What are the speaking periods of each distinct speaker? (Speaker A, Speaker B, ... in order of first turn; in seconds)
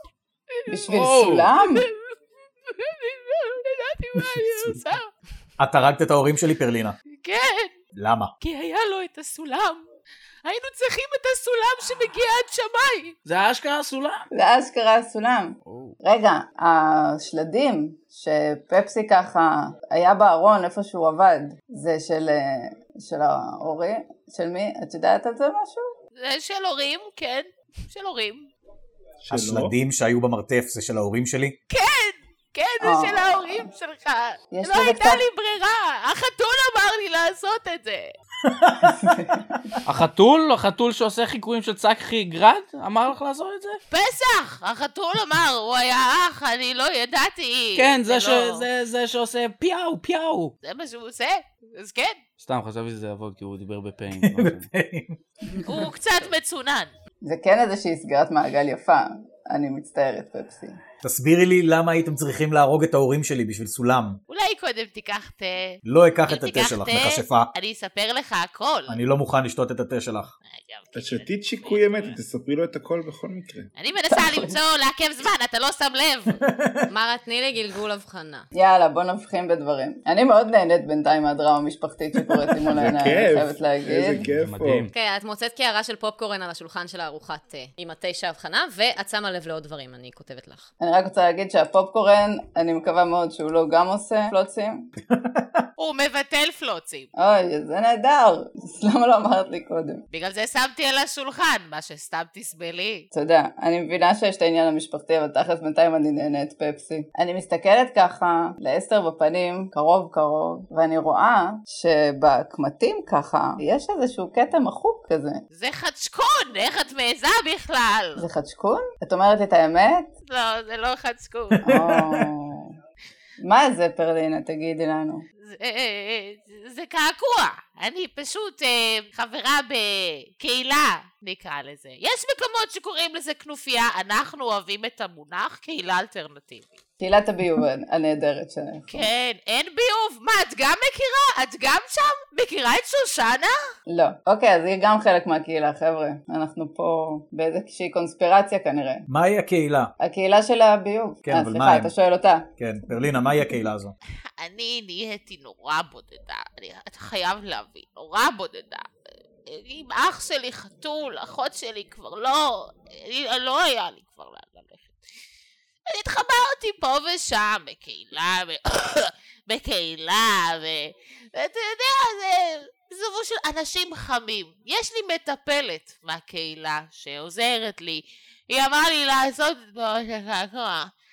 Speaker A: 0.5-1.0, 1.6-5.1, 7.1-7.8, 8.4-9.8, 10.4-13.2, 26.2-28.5, 31.7-38.1, 43.9-48.7, 50.6-52.2, 55.6-56.9, 64.3-69.0, 70.5-72.2, 73.8-76.4, 95.8-97.1, 100.1-103.1, 115.5-118.2, 120.3-121.7, 125.4-136.8, 138.9-143.6, 154.4-158.9, 159.5-164.9, 165.9-180.9
Speaker B: 0.7-1.9, 14.3-25.9, 32.8-33.7, 34.5-35.2, 39.0-39.7, 57.2-60.8, 78.5-84.2, 90.8-94.9, 97.2-100.0, 103.1-115.4, 118.2-120.1, 121.6-122.7, 123.4-125.2, 137.0-139.1, 143.9-149.1, 150.0-152.5
Speaker C: 0.9-1.5, 13.3-14.3, 15.7-16.0, 39.9-43.8, 47.8-50.5, 52.4-54.7, 84.3-84.9
Speaker D: 4.2-4.8, 5.6-7.0, 8.0-8.3, 29.3-31.6, 38.4-39.3, 54.1-55.2, 61.0-64.2, 65.8-67.5, 68.9-70.3, 76.4-76.8, 95.1-95.7, 121.7-122.3, 149.1-149.9, 151.2-151.9, 152.6-153.9
Speaker E: 29.2-29.7, 71.0-73.7, 82.7-84.9
Speaker F: 76.9-78.5, 84.9-90.7